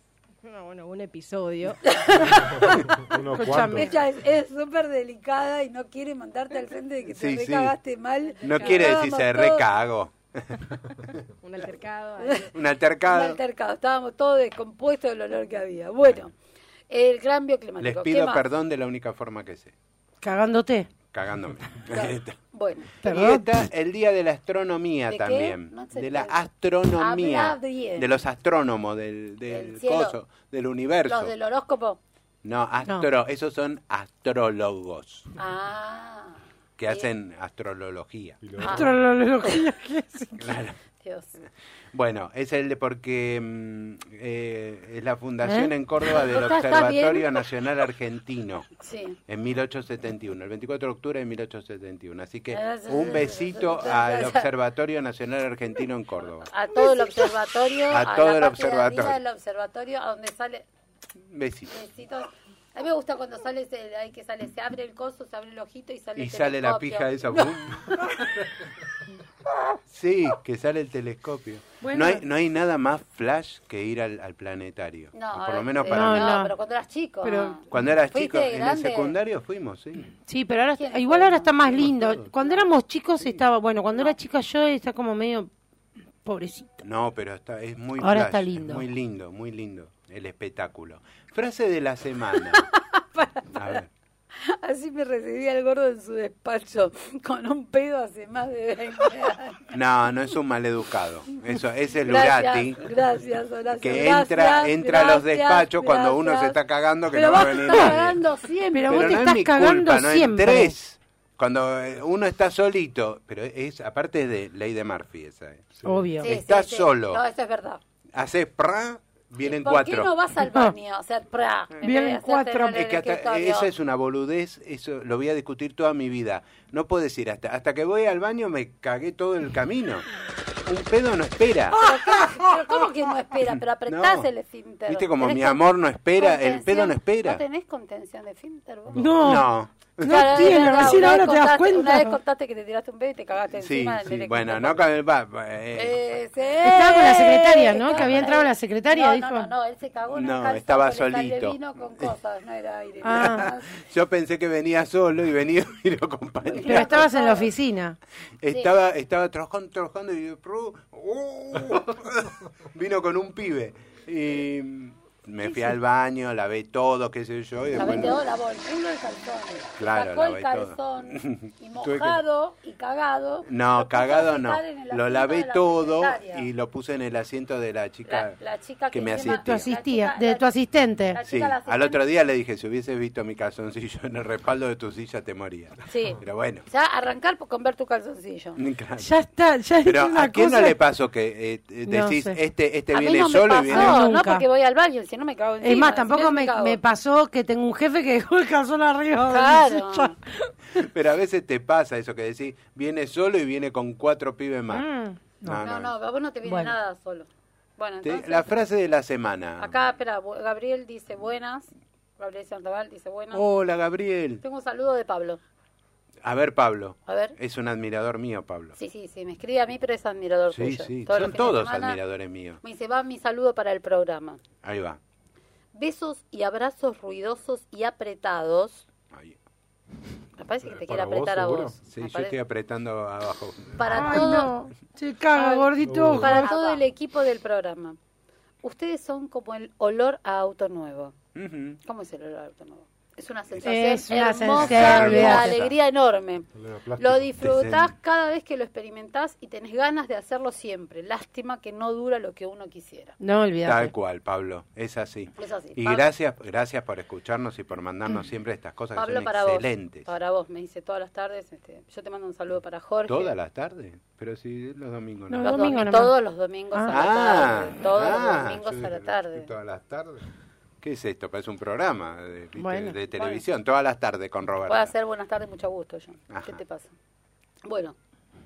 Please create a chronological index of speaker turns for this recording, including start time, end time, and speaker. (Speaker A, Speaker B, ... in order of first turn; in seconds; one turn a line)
Speaker A: 0.4-2.4
Speaker B: 1.8-3.1
Speaker C: 2.5-3.9
Speaker D: 3.3-3.9
Speaker B: 3.7-9.6
Speaker E: 7.1-7.8
Speaker A: 8.4-9.0
Speaker E: 8.4-10.8
Speaker A: 11.4-12.5
Speaker B: 12.2-12.5
Speaker E: 12.5-13.4
Speaker B: 13.0-16.3
Speaker B: 16.9-18.4
Speaker E: 17.8-19.7
Speaker D: 20.2-20.9
Speaker E: 21.1-22.4
Speaker B: 21.9-22.9
Speaker D: 23.0-23.4
Speaker E: 23.0-31.3
Speaker B: 25.1-26.4
Speaker B: 26.9-28.2
Speaker B: 29.5-30.2
Speaker B: 31.1-32.0
Speaker E: 32.4-35.3
Speaker B: 35.4-37.1
Speaker E: 36.8-38.4
Speaker C: 38.4-38.9
Speaker B: 38.6-39.6
Speaker D: 38.7-40.5
Speaker E: 40.4-40.8
Speaker B: 41.0-41.3
Speaker E: 41.9-48.7
Speaker D: 45.4-45.7
Speaker B: 46.1-47.4
Speaker B: 48.8-49.2
Speaker E: 49.3-56.5
Speaker B: 52.5-54.5
Speaker B: 56.5-60.6
Speaker E: 57.9-59.2
Speaker E: 61.2-61.7
Speaker B: 61.7-68.1
Speaker E: 66.2-68.0
Speaker E: 69.9-76.4
Speaker D: 71.8-72.2
Speaker B: 75.1-79.2
Speaker D: 75.9-76.5
Speaker D: 77.2-77.5
Speaker E: 77.7-80.1
Speaker D: 80.2-85.5
Speaker B: 80.8-82.7
Speaker D: 86.2-86.7
Speaker E: 86.8-92.7
Speaker D: 88.0-88.8
Speaker B: 92.5-93.8
Speaker E: 93.5-93.9
Speaker B: 94.3-99.7
Speaker E: 99.7-102.9
Speaker B: 102.0-106.6
Speaker E: 103.8-108.2
Speaker B: 107.1-109.3
Speaker D: 107.6-107.9
Speaker D: 108.7-110.8
Speaker E: 108.9-115.6
Speaker C: 115.8-116.0
Speaker D: 115.8-116.3
Speaker E: 116.2-117.2
Speaker B: 116.2-117.8
Speaker E: 118.1-120.1
Speaker B: 119.4-123.7
Speaker D: 121.8-122.8
Speaker E: 122.7-130.1
Speaker E: 130.6-131.8
Speaker D: 131.8-132.7
Speaker B: 131.8-135.6
Speaker E: 133.9-134.3
Speaker E: 134.9-137.4
Speaker B: 136.1-139.1
Speaker D: 138.9-139.5
Speaker E: 139.2-141.1
Speaker D: 140.0-142.2
Speaker B: 140.0-144.8
Speaker E: 143.5-146.0
Speaker B: 145.7-153.8
Speaker D: 146.6-149.5
Speaker E: 147.9-148.3
Speaker E: 150.1-152.1
Speaker D: 153.0-153.4
Speaker E: 153.2-157.1
Speaker B: 156.4-157.5
Speaker D: 156.7-158.0
Speaker E: 158.4-168.2
Speaker B: 167.8-176.5
Speaker E: 169.8-172.2
Speaker E: 173.4-178.4
Speaker B: 178.1-180.5
Speaker E: 178.9-179.7
Speaker D: 179.2-181.2
Speaker B: 181.1-182.0
Speaker E: 181.2-186.7
Speaker B: 185.9-188.6
Speaker E: 188.6-189.1
Speaker D: 189.0-190.8
Speaker E: 189.8-194.0
Speaker D: 191.8-192.4
Speaker B: 192.9-196.8
Speaker D: 193.7-194.4
Speaker D: 195.6-200.5
Speaker B: 199.3-200.2
Speaker E: 200.7-204.8
Speaker D: 204.7-205.6
Speaker E: 205.4-205.9
Speaker B: 205.6-208.5
Speaker D: 206.4-206.7
Speaker E: 208.0-209.8
Speaker B: 209.6-213.4
Speaker E: 213.3-214.4
Speaker B: 214.4-215.4
Speaker E: 216.2-218.8
Speaker B: 217.1-217.3
Speaker B: 218.8-222.0
Speaker E: 220.5-222.6
Speaker B: 222.6-224.4
Speaker E: 224.6-225.0
Speaker B: 225.7-228.8
Speaker E: 229.1-229.4
Speaker B: 230.4-232.3
Speaker C: 230.6-231.8
Speaker E: 231.9-234.4
Speaker B: 233.8-234.6
Speaker D: 233.9-236.6
Speaker B: 235.3-238.0
Speaker C: 235.8-236.5
Speaker B: 238.6-241.2
Speaker E: 241.3-241.8
Speaker B: 241.8-253.2
Speaker D: 243.6-245.6
Speaker E: 244.5-245.7
Speaker C: 246.5-247.4
Speaker E: 247.4-247.9
Speaker D: 253.2-253.9
Speaker E: 253.6-260.1
Speaker B: 255.3-256.1
Speaker B: 258.9-263.3
Speaker E: 263.1-265.8
Speaker D: 265.3-266.1
Speaker B: 265.4-269.5
Speaker E: 266.9-270.2
Speaker E: 270.8-274.9
Speaker D: 272.6-272.9
Speaker B: 273.1-273.4
Speaker B: 274.6-276.9
Speaker E: 276.3-276.6
Speaker B: 277.6-277.9